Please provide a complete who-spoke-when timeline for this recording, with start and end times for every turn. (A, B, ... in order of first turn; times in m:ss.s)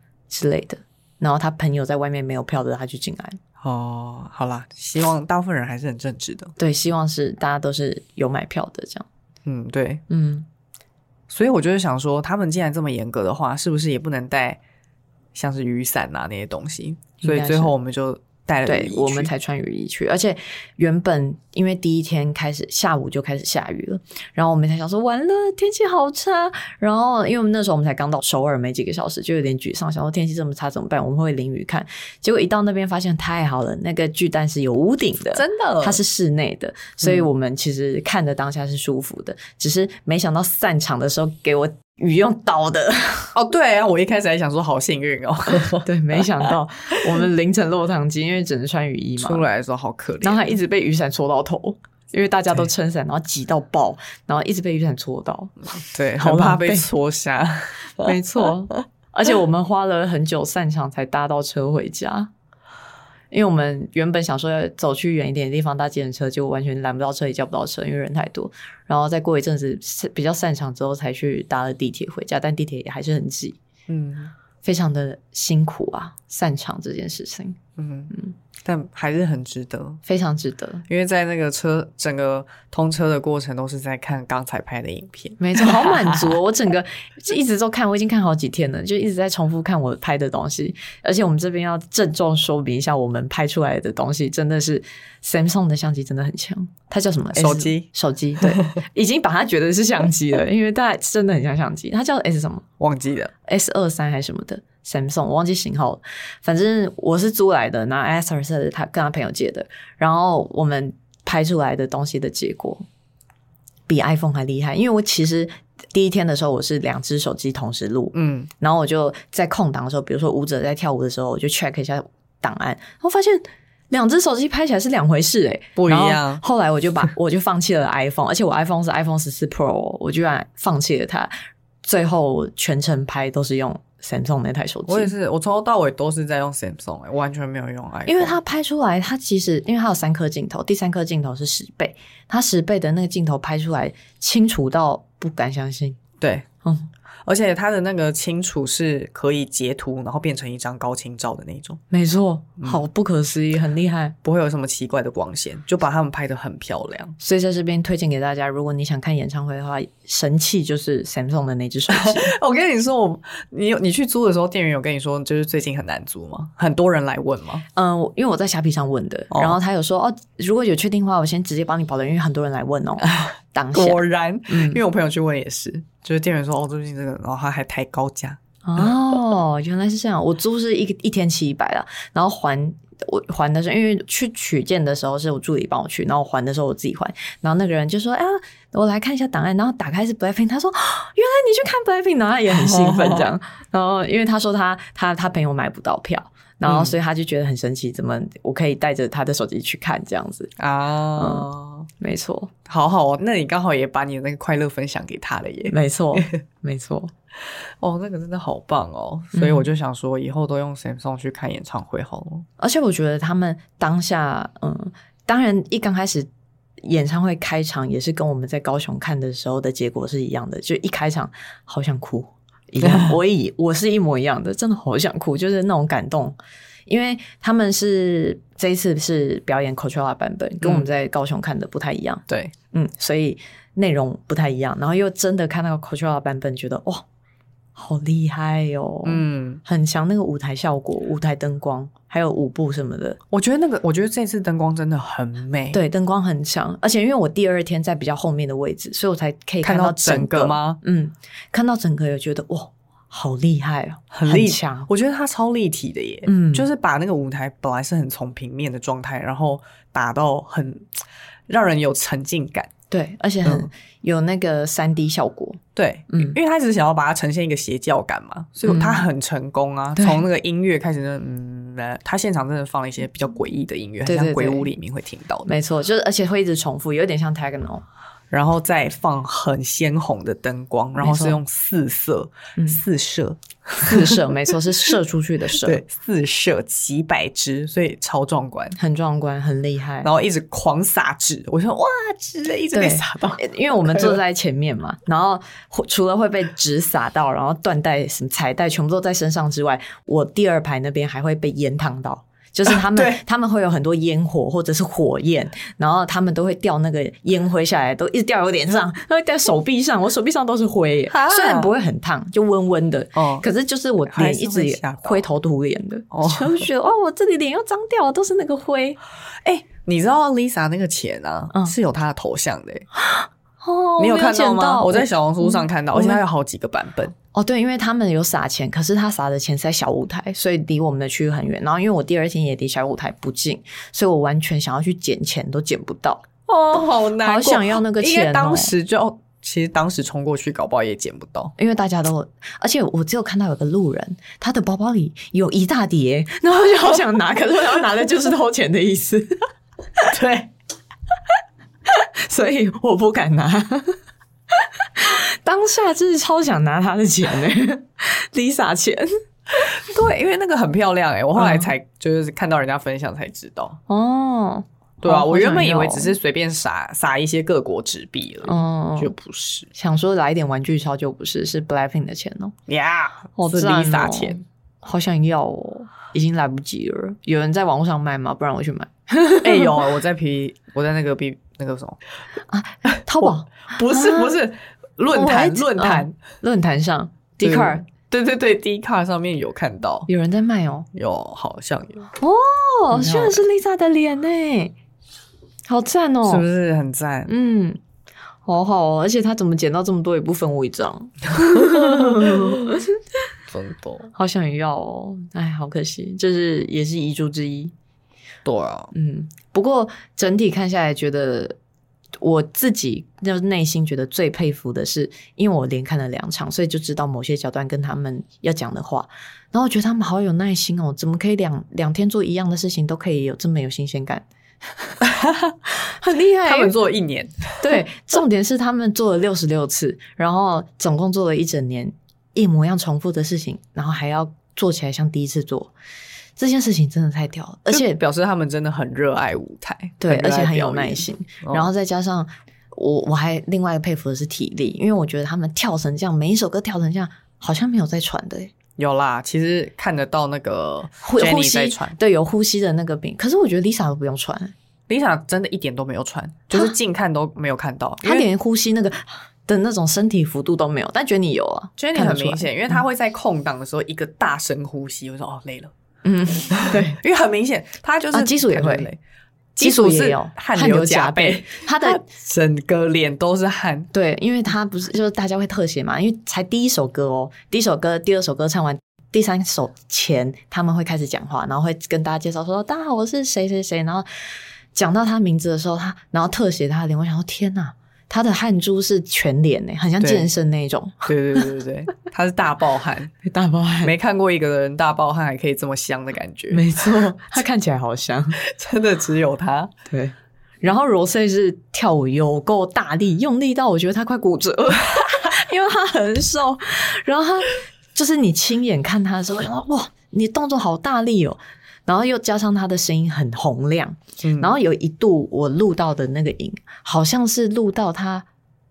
0:00.3-0:03.4 A
0:03.6-0:06.5 B
0:06.6-0:09.0 A
0:09.4-0:10.0 B
0:10.1-0:10.4 A
0:11.3-0:14.6 B
0:15.3-0:19.3 B
0:17.2-0:17.7 A
0:18.6-0:43.3 A
0:35.3-0:36.0 B
0:37.0-0:37.3 B
0:43.3-0:46.5 B
0:45.8-0:49.4 A
0:49.2-0:50.5 B
0:50.2-0:55.5 A
0:55.8-0:58.1 B
0:56.2-0:56.9 A
0:58.0-1:02.3 A
1:03.3-1:13.6 A
1:13.9-1:14.3 B
1:14.6-1:17.6 A
1:17.8-1:20.0 B
1:20.0-1:20.8 A
1:20.9-1:26.4 B
1:25.4-1:42.6 A
1:37.3-1:37.9 B
1:38.4-1:38.8 B
1:42.8-1:43.3 B
1:43.5-1:52.8 A
1:53.9-2:11.3 A
1:58.1-1:58.5 B
2:05.8-2:06.4 B
2:11.8-2:15.1 A
2:14.9-2:18.4 B
2:18.0-2:26.0 A
2:26.2-2:26.4 B
2:27.2-2:31.8 B
2:31.9-2:34.2 A
2:34.2-2:37.1 B
2:37.2-2:42.3 A
2:41.9-2:47.6 B
2:47.7-2:54.8 A
2:49.3-2:49.6 B
2:53.0-2:58.9 B
2:58.6-3:20.5 A
3:12.5-3:13.3 B
3:16.7-3:16.9 B
3:20.6-3:21.9 B
3:21.2-3:21.5 A
3:22.0-3:22.5 A
3:22.7-3:26.4 B
3:25.7-3:27.1 A
3:27.4-3:32.4 B
3:29.3-3:29.7 A
3:32.6-3:36.3 A
3:36.8-3:57.0 A
3:42.8-3:43.2 B
3:50.6-3:50.9 B
3:52.3-3:52.5 B
3:57.8-4:03.2 A
3:59.0-3:59.6 B
4:03.3-4:05.8 B
4:05.7-4:14.9 A
4:09.6-4:10.8 B
4:14.1-4:22.7 B
4:16.2-4:16.7 A
4:22.9-4:26.4 A
4:25.8-4:35.5 B
4:28.6-4:29.0 A
4:30.0-4:30.2 A
4:34.0-4:34.7 A
4:35.4-4:37.8 A
4:38.3-4:44.2 B
4:41.0-4:41.4 A
4:43.8-4:45.8 A
4:45.6-4:48.8 B
4:48.8-4:50.1 A
4:50.0-4:54.2 B
4:52.7-5:19.0 A
5:02.7-5:03.2 B
5:11.1-5:11.7 B
5:13.1-5:13.4 B
5:14.1-5:15.2 B
5:16.1-5:16.7 B
5:19.4-5:22.9 B
5:23.0-5:26.2 A
5:24.0-5:27.1 B
5:27.3-5:38.7 A
5:36.5-5:41.5 B
5:41.6-5:49.4 A
5:50.1-5:50.5 B
5:51.9-5:54.0 A
5:55.0-5:59.1 A
5:59.6-6:03.8 B
6:01.4-6:01.7 A
6:03.9-6:06.1 A
6:05.0-6:09.7 B
6:08.4-6:09.1 A
6:09.7-6:12.5 A
6:12.7-6:14.4 B
6:13.4-6:19.8 A
6:19.4-6:22.0 B
6:22.5-6:24.4 A
6:23.2-6:26.2 B
6:25.1-6:27.8 A
6:27.4-6:30.1 B
6:30.1-6:30.9 A
6:30.9-6:32.1 B
6:32.2-6:34.7 A
6:32.9-6:33.4 B
6:35.7-6:36.4 A
6:36.2-6:37.3 B
6:37.3-6:37.8 A
6:38.4-6:43.0 A
6:41.4-6:42.6 B
6:43.5-6:44.1 B
6:44.1-6:47.7 A
6:48.4-6:48.9 B
6:48.9-6:51.6 A
6:52.2-7:04.2 A
7:05.0-7:05.5 B
7:05.8-7:06.7 A
7:06.4-7:07.6 B
7:07.6-7:15.7 A
7:16.4-7:18.0 A
7:17.7-7:21.7 B
7:20.0-7:28.5 A
7:28.8-7:32.0 B
7:31.0-7:34.5 A
7:34.9-7:38.3 B
7:38.0-7:42.8 A
7:41.8-7:45.7 B
7:46.0-7:47.0 A
7:46.5-7:49.0 B
7:48.1-7:48.9 A
7:49.6-7:53.9 B
7:49.6-7:52.0 A
7:53.9-8:04.0 A
8:04.7-8:11.5 A
8:10.0-8:10.3 B
8:11.0-8:13.1 B
8:13.2-8:13.9 A
8:13.8-8:17.1 B
8:16.5-8:18.4 A
8:18.4-8:19.7 B
8:19.9-8:38.2 A
8:34.2-8:34.6 B